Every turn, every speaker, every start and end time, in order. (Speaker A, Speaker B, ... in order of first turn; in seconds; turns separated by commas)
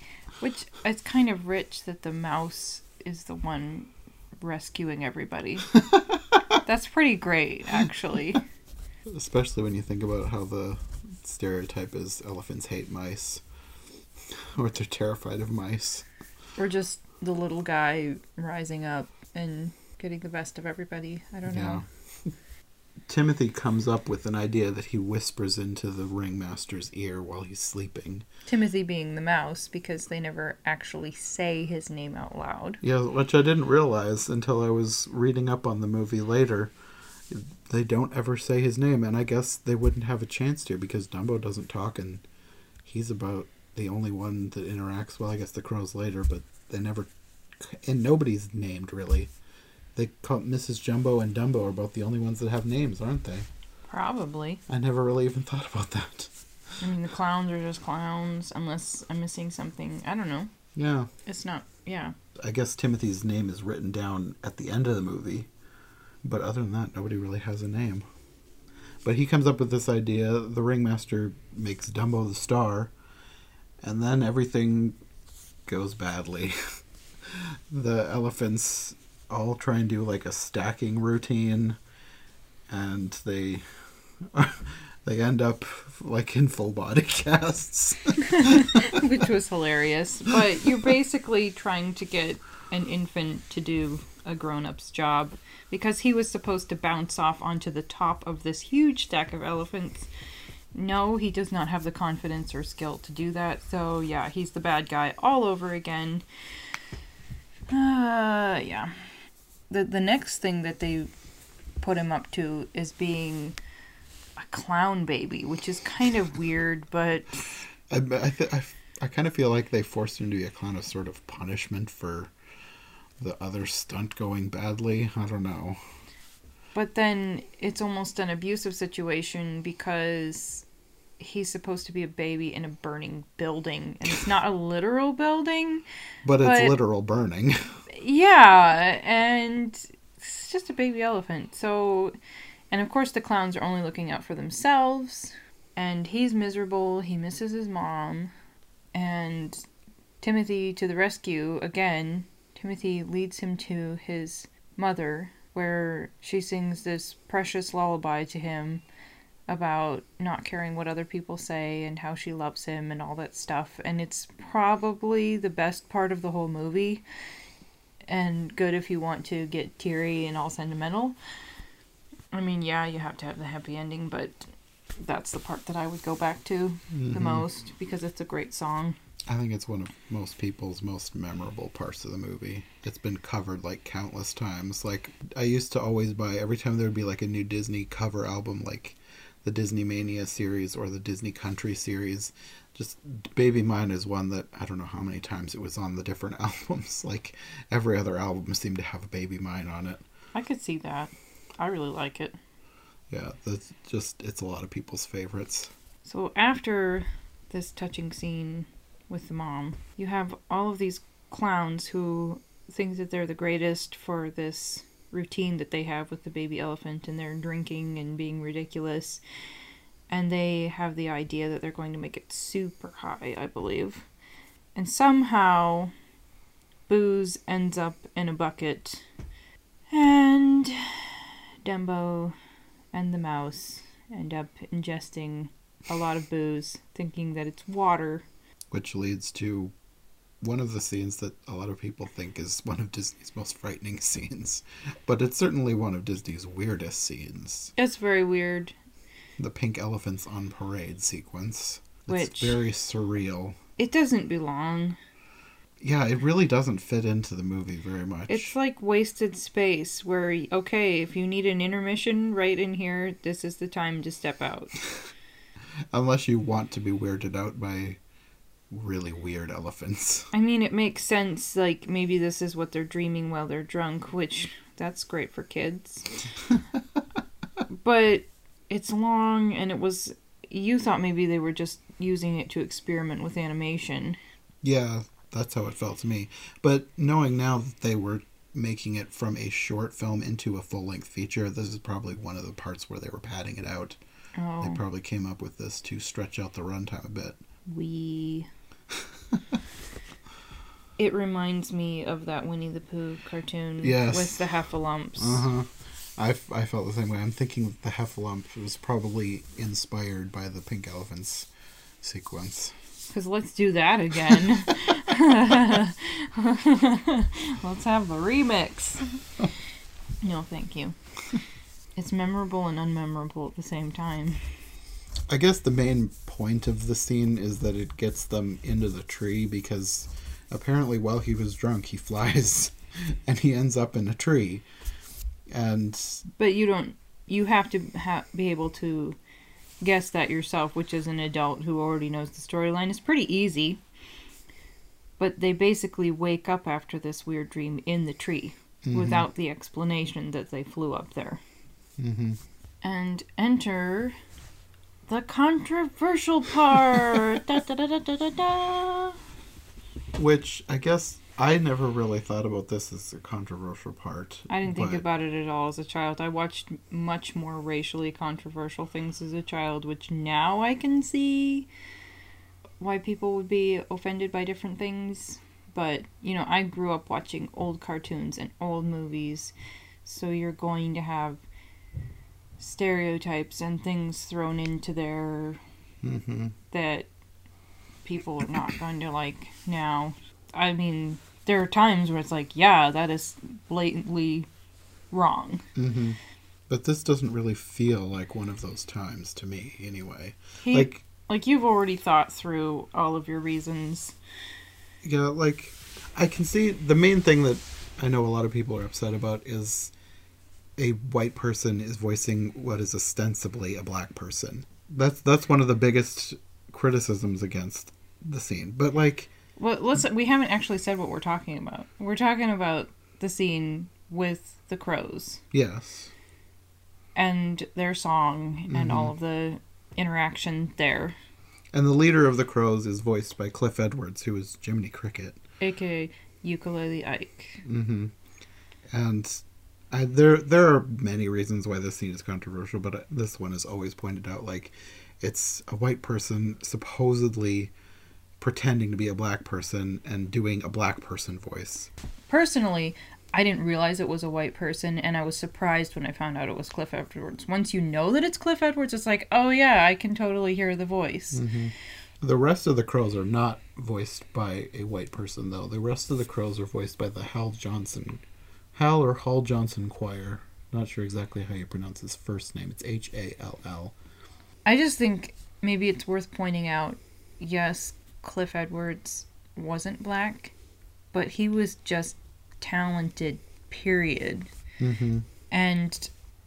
Speaker A: 0.4-5.7, Speaker B: 5.9-6.4, Speaker A: 6.6-8.4, Speaker B: 9.1-13.4, Speaker B: 14.4-16.1, Speaker A: 16.6-21.8, Speaker B: 21.5-22.3, Speaker B: 23.1-28.3, Speaker A: 28.5-32.8, Speaker B: 32.8-36.7, Speaker B: 37.3-42.2, Speaker B: 42.9-49.3, Speaker B: 50.0-53.5, Speaker A: 53.9-54.6, Speaker B: 54.7-56.3, Speaker A: 56.8-60.5, Speaker B: 60.8-61.1, Speaker A: 61.3-62.1, Speaker B: 62.4-65.5, Speaker B: 66.2-68.0, Speaker B: 69.0-72.9, Speaker B: 73.8-75.0, Speaker B: 75.7-81.8, Speaker B: 82.7-83.7, Speaker B: 84.2-89.0, Speaker A: 88.4-100.1, Speaker A: 100.7-106.2, Speaker A: 107.7-109.0, Speaker A: 109.7-111.1, Speaker A: 111.8-113.6, Speaker A: 114.4-117.5, Speaker B: 117.9-122.3, Speaker B: 123.2-125.8, Speaker A: 126.7-130.7, Speaker A: 131.2-135.8, Speaker B: 136.2-137.6, Speaker A: 136.4-136.8, Speaker A: 137.9-142.1, Speaker A: 142.7-148.3, Speaker A: 148.9-149.6, Speaker A: 150.2-158.8, Speaker A: 159.5-167.0, Speaker A: 168.1-171.2, Speaker A: 172.3-179.0, Speaker B: 176.9-177.5, Speaker B: 179.3-200.0, Speaker A: 200.3-202.4, Speaker B: 203.1-205.7, Speaker A: 206.1-219.2, Speaker A: 220.1-224.1, Speaker A: 224.8-225.9, Speaker A: 226.9-229.1, Speaker A: 229.9-232.3, Speaker A: 232.9-238.3, Speaker B: 238.7-239.7, Speaker B: 240.4-247.7, Speaker A: 247.8-248.8, Speaker B: 249.4-253.6, Speaker A: 252.1-252.6, Speaker A: 253.8-255.0, Speaker B: 255.8-258.6, Speaker A: 258.3-264.8, Speaker B: 265.9-268.0, Speaker B: 268.7-270.3, Speaker A: 270.3-276.1, Speaker B: 276.5-276.8, Speaker A: 277.7-284.2, Speaker B: 284.6-294.0, Speaker A: 294.4-294.8, Speaker B: 294.6-297.4, Speaker A: 297.7-298.5, Speaker A: 301.0-305.5, Speaker B: 303.8-304.4, Speaker B: 305.2-311.5, Speaker B: 312.0-312.8, Speaker A: 313.1-319.1, Speaker A: 320.2-321.0, Speaker A: 322.0-324.4, Speaker B: 325.3-334.6, Speaker B: 335.5-336.3, Speaker A: 336.4-339.2, Speaker A: 339.8-343.8, Speaker A: 345.2-351.4, Speaker B: 348.9-349.3, Speaker B: 352.0-352.4, Speaker A: 352.8-354.2, Speaker A: 355.1-359.2, Speaker B: 360.1-365.0, Speaker A: 364.5-371.7, Speaker A: 372.8-379.5, Speaker A: 380.1-381.4, Speaker A: 382.6-385.6, Speaker B: 386.0-386.6, Speaker A: 386.7-387.1, Speaker A: 388.1-394.5, Speaker A: 395.1-395.6, Speaker B: 395.8-401.0, Speaker A: 400.6-404.2, Speaker B: 405.0-409.9, Speaker B: 410.8-419.3, Speaker A: 419.6-425.4, Speaker B: 425.5-426.1, Speaker A: 427.2-431.2, Speaker B: 428.7-429.1, Speaker B: 431.7-435.4, Speaker A: 435.6-437.6, Speaker B: 437.6-438.1, Speaker B: 438.9-447.7, Speaker B: 448.4-451.9, Speaker A: 452.3-461.4, Speaker B: 461.3-473.9, Speaker A: 474.7-480.5, Speaker A: 481.1-484.5, Speaker B: 484.8-485.3, Speaker A: 485.5-486.1